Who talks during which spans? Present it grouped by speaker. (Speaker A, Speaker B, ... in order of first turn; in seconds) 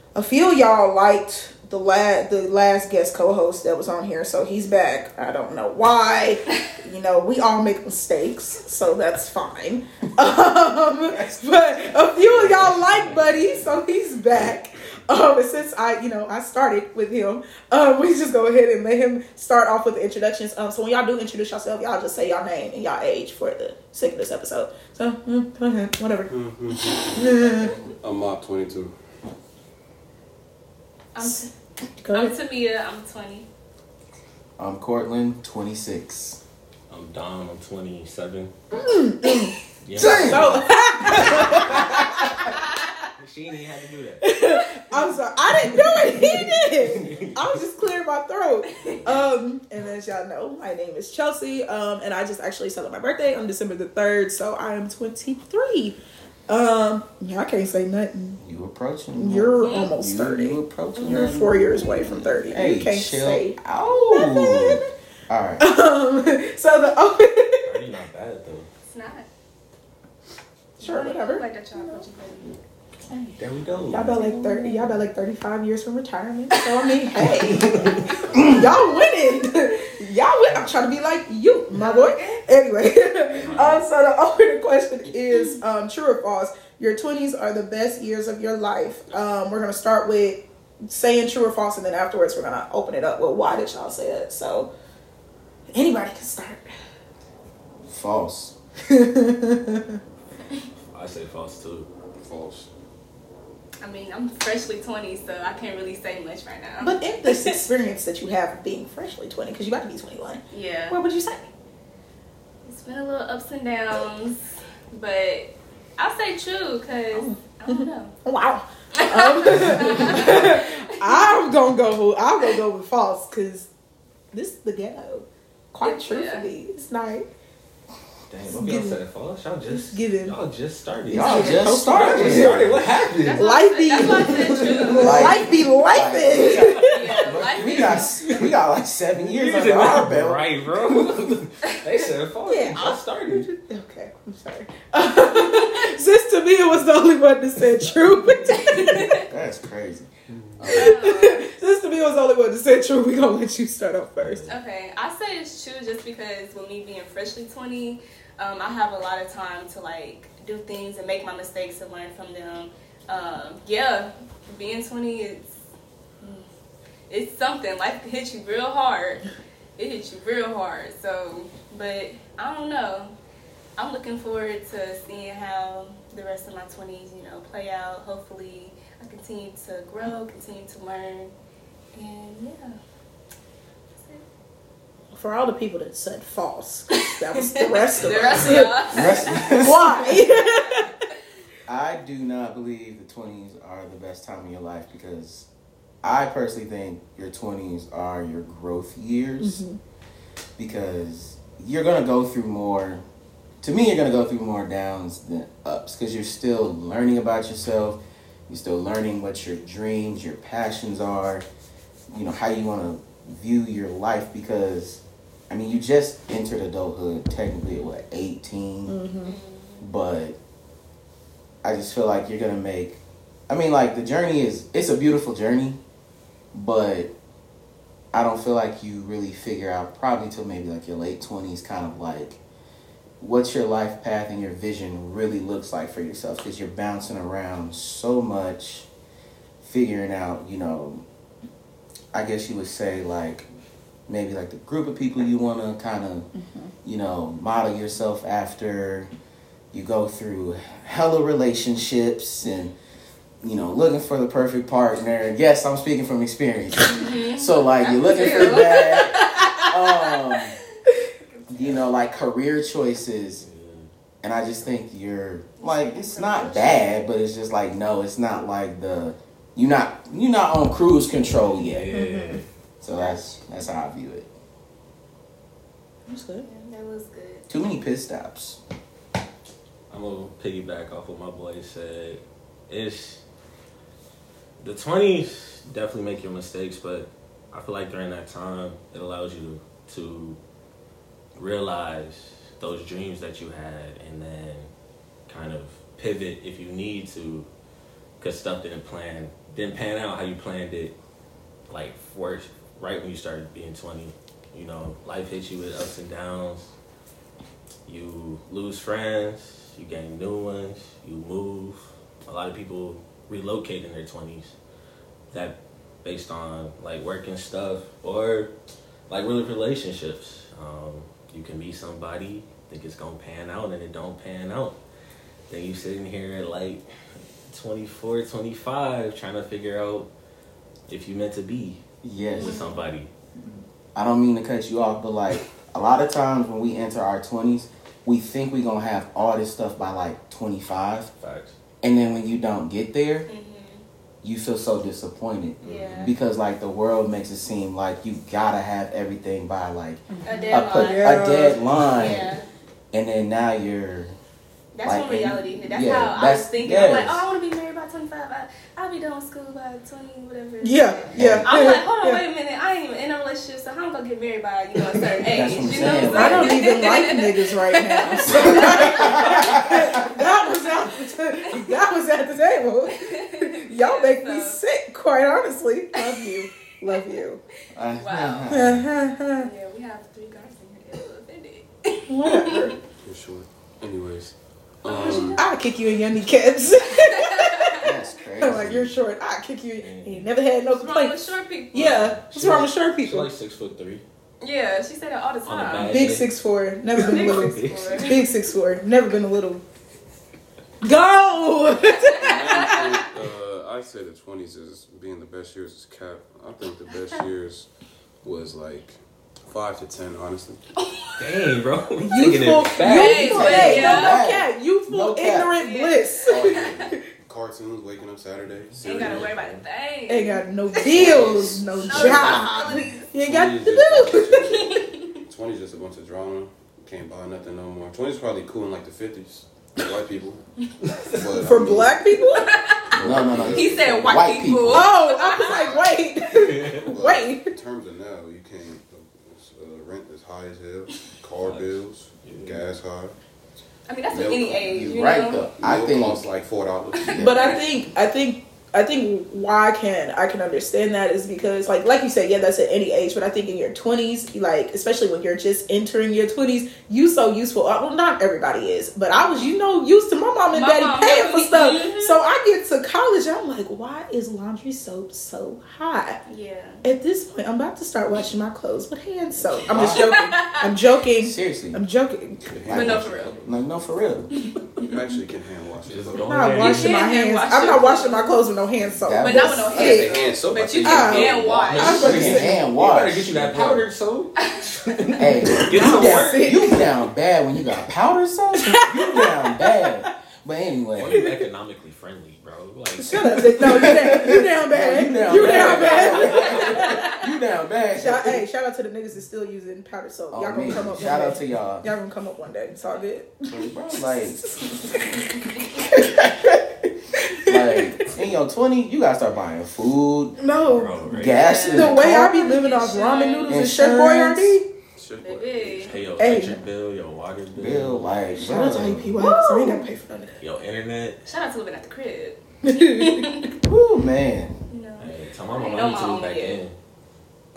Speaker A: 0.1-26.3, 26.9-27.7, 32.0-32.3, 38.7-42.5, 44.2-58.4, 59.2-63.6, 64.1-64.8, 65.6-67.7, 70.8-72.0, 73.1-73.4, 73.9-94.7, 95.7-96.7, 98.9-100.0, 106.8-111.4, 117.1-123.7, 124.3-127.3, 128.5-129.0, 129.7-130.3, 131.1-132.8, 133.3-137.2, 142.4-149.2, 150.6-154.4, 185.1-188.8, 189.6-190.9, 199.4-199.8, 218.8-219.3, 246.3-246.7, 271.9-272.4, 276.1-276.4, 350.1-351.6, 360.6-362.2, 366.1-377.4, 378.5-379.5, 382.1-382.8, 385.0-387.9, 388.4-391.2, 391.7-393.3, 395.8-399.6, 400.8-402.5, 412.0-417.0, 420.1-424.5, 431.4-432.5, 434.7-437.5, 447.2-466.2, 466.8-472.4, 476.2-480.2, 480.8-482.6, 485.4-486.9, 488.6-489.8, 491.0-491.4, 493.0-497.1, 497.9-503.4, 504.1-507.8, 510.4-511.0, 511.7-514.6, 516.2-516.6, 518.4-520.4, 522.6-523.3
Speaker B: 11.1-11.9, 34.6-36.4, 39.9-40.4, 58.4-65.7, 78.3-78.7, 97.9-98.5, 131.1-132.7, 135.0-141.4, 149.2-150.1, 188.3-190.1, 191.7-195.5, 196.0-199.6, 200.6-203.0, 203.6-208.0, 208.5-211.4, 212.1-219.0, 219.8-220.3, 221.6-225.8, 226.5-227.1, 228.1-232.4, 233.2-238.9, 239.6-241.0, 242.1-243.4, 244.1-246.3, 246.8-249.1, 249.7-252.7, 253.4-260.6, 261.5-263.4, 264.2-272.0, 272.8-274.3, 277.5-278.6, 332.0-332.7, 333.9-341.1, 341.8-343.3, 344.2-352.3, 352.9-354.1, 354.8-357.2, 361.1-361.5, 365.3-366.6, 368.0-370.1, 377.7-378.9, 387.8-389.0, 413.0-415.5, 432.9-434.9, 444.7-446.2, 447.0-447.5, 469.7-470.1, 471.2-471.8, 472.6-474.3, 478.9-479.7, 482.0-483.9, 485.2-491.1, 493.6-498.4, 500.3-501.9, 503.5-504.4, 507.4-510.4, 511.1-512.4, 513.5-514.6, 517.5-519.2, 523.6-524.6
Speaker C: 12.2-13.8, 36.9-38.5, 39.8-42.2, 43.2-44.4, 45.4-47.6, 67.6-68.7, 73.4-75.0, 77.2-78.7, 100.9-101.9, 128.3-133.4, 134.5-135.3, 139.1-143.5, 154.2-154.6, 263.4-263.9, 271.6-272.5, 279.9-283.2, 284.6-290.4, 291.3-294.7, 295.3-297.5, 298.2-300.9, 301.7-306.7, 307.9-314.5, 315.3-318.5, 319.1-324.8, 325.5-326.8, 327.5-330.1, 330.9-331.8, 332.4-333.1, 341.2-341.5, 389.8-390.3, 391.7-394.0, 395.4-396.3, 397.0-398.1, 411.2-413.8, 419.0-419.6, 430.8-431.3, 436.4-436.9, 441.4-442.7, 475.8-477.1, 481.6-486.5, 490.9-493.6, 495.3-496.6, 510.6-511.5, 515.8-518.1, 520.4-521.2, 525.0-526.7
Speaker D: 26.3-28.9, 83.4-83.8, 102.2-102.7, 150.6-150.9, 345.6-346.1, 383.0-385.4, 402.1-407.7, 408.2-410.6, 416.3-419.4, 420.8-430.4, 431.0-432.0, 432.9-434.2, 436.8-443.1, 444.1-444.9, 445.5-447.3, 472.4-473.9, 474.8-476.5, 479.7-482.2, 515.0-516.5
Speaker E: 31.1-31.5, 32.1-33.5, 48.7-49.0, 59.6-59.9, 68.8-69.3, 70.8-72.5, 78.1-79.4, 81.7-82.4, 85.3-85.6, 103.8-107.6, 110.5-111.0, 112.6-118.1, 119.0-121.1, 125.8-126.5, 133.2-135.4, 136.8-138.1, 148.5-149.3, 150.7-151.4, 154.5-165.6, 166.2-166.5, 167.1-169.2, 169.8-173.1, 173.8-181.3, 181.9-182.8, 183.9-184.2, 187.6-190.8, 219.2-219.9, 256.9-260.4, 261.3-262.0, 265.6-267.1, 272.9-273.8, 276.4-277.5, 332.3-332.9, 343.3-343.8, 345.6-346.1, 350.2-351.4, 351.9-352.4, 354.7-370.7, 371.5-371.8, 372.9-374.6, 376.0-376.3, 377.9-378.6, 379.4-382.6, 384.8-385.5, 387.3-387.8, 390.7-392.1, 394.4-396.0, 396.9-398.3, 402.0-403.0, 410.8-411.5, 412.8-414.2, 415.5-416.9, 418.8-423.1, 424.5-425.2, 432.3-435.8, 443.9-445.5, 459.1-459.5, 460.5-462.2, 466.2-466.8, 469.9-470.6, 472.7-473.3, 476.6-478.4, 479.2-482.4, 511.3-513.6, 515.2-515.9, 519.2-519.8, 521.2-523.6, 524.7-526.6